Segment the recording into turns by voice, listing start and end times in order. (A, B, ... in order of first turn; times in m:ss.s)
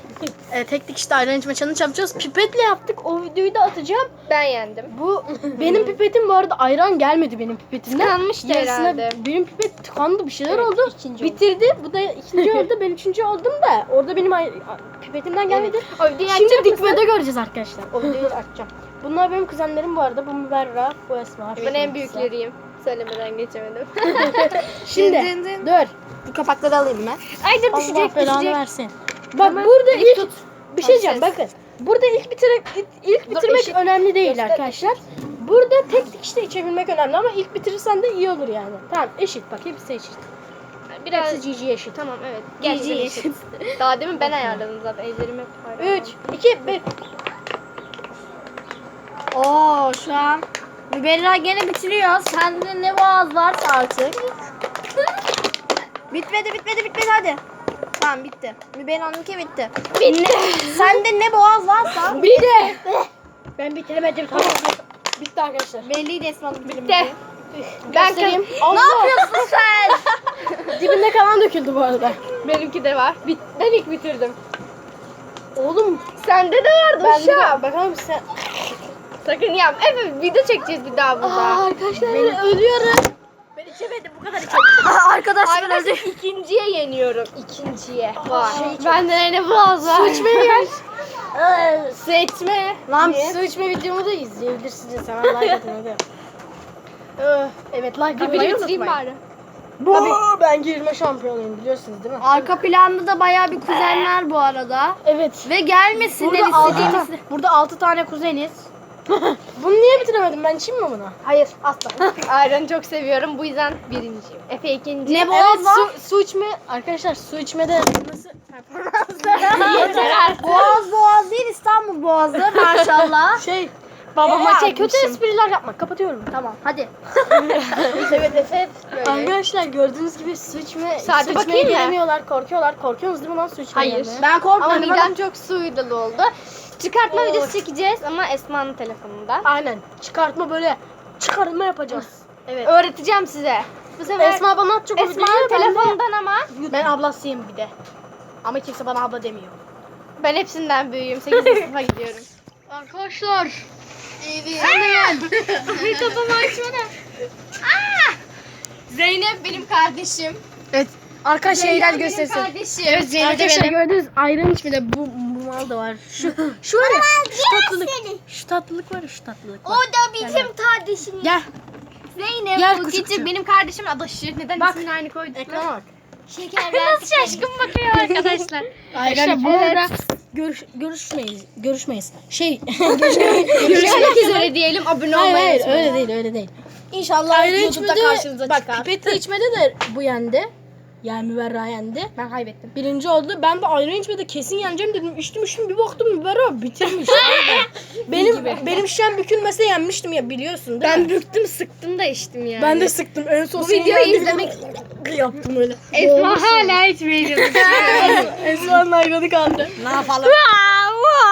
0:00.4-0:04.1 A
0:04.3-0:04.9 B
0:04.9-0:22.3 A
0:05.6-0:06.0 B
0:07.9-0:09.2 B
0:10.5-0:11.4 B
0:15.5-0:17.1 B
0:21.6-0:24.8 B
0:24.0-0:25.9 A
0:24.8-0:25.7 C
0:26.2-0:27.2 C
0:27.3-0:28.6 B
0:27.7-0:40.3 A
0:29.4-0:31.3 B
0:33.3-0:34.8 B
0:40.9-0:46.1 B
0:41.1-0:42.0 A
0:42.6-0:43.6 C
0:44.2-0:44.6 A
0:45.8-0:46.8 A
0:49.3-0:54.2 C
0:56.1-0:57.4 C
0:57.9-1:02.5 C
0:59.9-1:01.0 B
1:02.1-1:03.0 A
1:02.1-1:02.8 B
1:03.6-1:05.9 A
1:05.8-1:07.2 C
1:06.6-1:07.2 B
1:07.5-1:09.3 A
1:07.9-1:08.7 B
1:08.6-1:10.0 C
1:09.4-1:10.7 B
1:10.7-1:12.2 A
1:12.4-1:14.4 B
1:15.5-1:16.0 A
1:16.2-1:17.6 B
1:17.0-1:18.4 A
1:19.2-1:21.6 B
1:21.2-1:22.4 C
1:21.9-1:25.0 A
1:24.7-1:26.2 C
1:25.4-1:30.8 B
1:28.2-1:29.2 A
1:28.5-1:28.8 C
1:29.8-1:30.8 A
1:31.6-1:33.1 B
1:32.9-1:36.0 A
1:33.0-1:33.4 C
1:35.3-1:35.6 B
1:37.2-1:39.0 A
1:38.1-1:39.2 B
1:39.8-1:42.5 A
1:39.9-1:40.2 C
1:42.2-1:47.2 C
1:45.0-1:48.7 A
1:46.6-1:47.0 B
1:49.5-1:51.2 A
1:51.3-1:55.3 B
1:55.0-1:55.9 C
1:55.2-2:00.4 A
1:59.1-2:03.4 C
1:59.4-2:00.8 B
2:02.5-2:03.1 B
2:03.3-2:06.4 A
2:04.2-2:05.2 B
2:06.3-2:06.9 C
2:07.2-2:14.2 A
2:07.3-2:09.3 B
2:11.0-2:12.0 B
2:13.7-2:19.5 B
2:14.2-2:15.1 C
2:17.1-2:17.5 A
2:19.4-2:22.7 A
2:22.6-2:26.6 B
2:24.1-2:26.0 A
2:26.5-2:27.7 A
2:28.4-2:29.6 A
2:30.2-2:32.2 B
2:32.7-2:33.6 A
2:34.2-2:36.6 B
2:34.6-2:36.9 A
2:34.7-2:35.2 C
2:37.6-2:38.2 B
2:38.9-2:40.4 B
2:40.7-2:42.5 A
2:41.4-2:43.8 B
2:43.1-2:50.5 A
2:46.8-2:48.2 C
2:49.6-2:51.4 B
2:51.2-2:51.5 A
2:52.1-2:55.7 B
2:52.6-2:53.3 A
2:54.6-2:55.9 A
2:56.3-2:59.9 B
2:56.4-2:57.5 C
2:58.9-3:04.6 A
3:03.3-3:06.1 B
3:05.1-3:06.5 A
3:06.9-3:09.2 B
3:07.3-3:10.5 A
3:11.0-3:12.1 A
3:12.2-3:12.7 B
3:12.7-3:21.1 A
3:16.9-3:18.8 B
3:20.8-3:22.9 B
3:22.6-3:26.8 A
3:23.6-3:24.6 B
3:25.9-3:28.5 B
3:27.3-3:29.8 A
3:29.8-3:30.4 C
3:29.8-3:30.4 B
3:30.6-3:30.9 A